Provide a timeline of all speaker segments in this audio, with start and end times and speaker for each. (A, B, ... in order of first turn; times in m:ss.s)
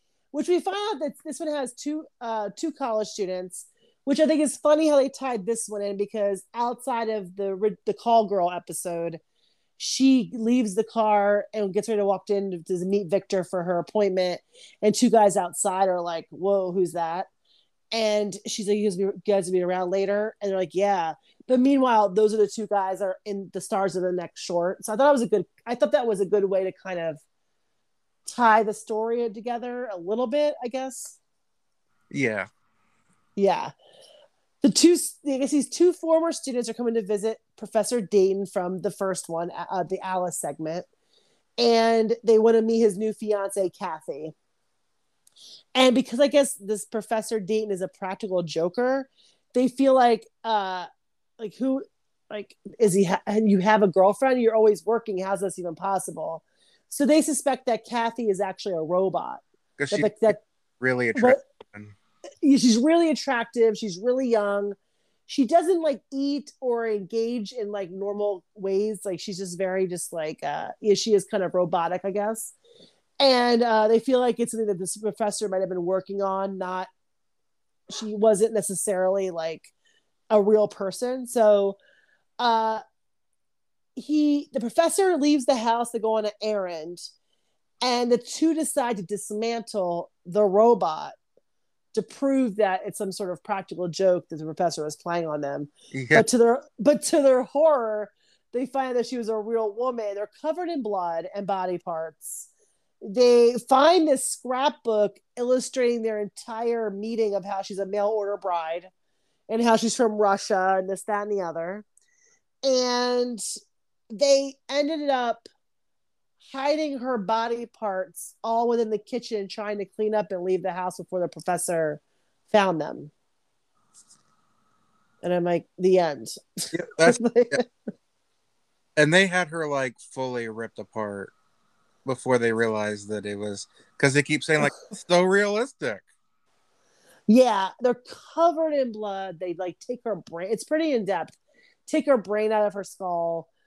0:00.3-0:09.2 A
0:09.8-0:17.3 A
0:17.9-0:27.2 A
0:28.3-0:31.2 A
0:32.1-0:32.5 B
0:33.4-0:33.7 A
0:34.6-0:40.8 A
0:41.6-0:44.3 A
0:45.8-0:50.9 A
0:51.4-1:00.4 A
0:59.8-1:01.9 B
1:02.4-1:04.8 A
1:05.3-1:12.5 A
1:13.2-1:16.9 A
1:17.9-1:19.7 A
1:20.3-1:21.8 A
1:22.4-1:22.8 A
1:24.0-1:27.0 A
1:27.8-1:31.1 A
1:31.9-1:42.5 A
1:35.9-1:36.2 B
1:43.0-1:48.9 A
1:49.5-1:51.8 A
1:52.6-1:53.4 A
1:54.1-1:55.4 A
1:56.5-2:03.1 A
2:05.2-2:07.6 A
2:06.7-2:07.6 B
2:09.0-2:11.3 B
2:12.0-2:16.0 B
2:17.3-2:21.4 A
2:21.9-2:23.5 A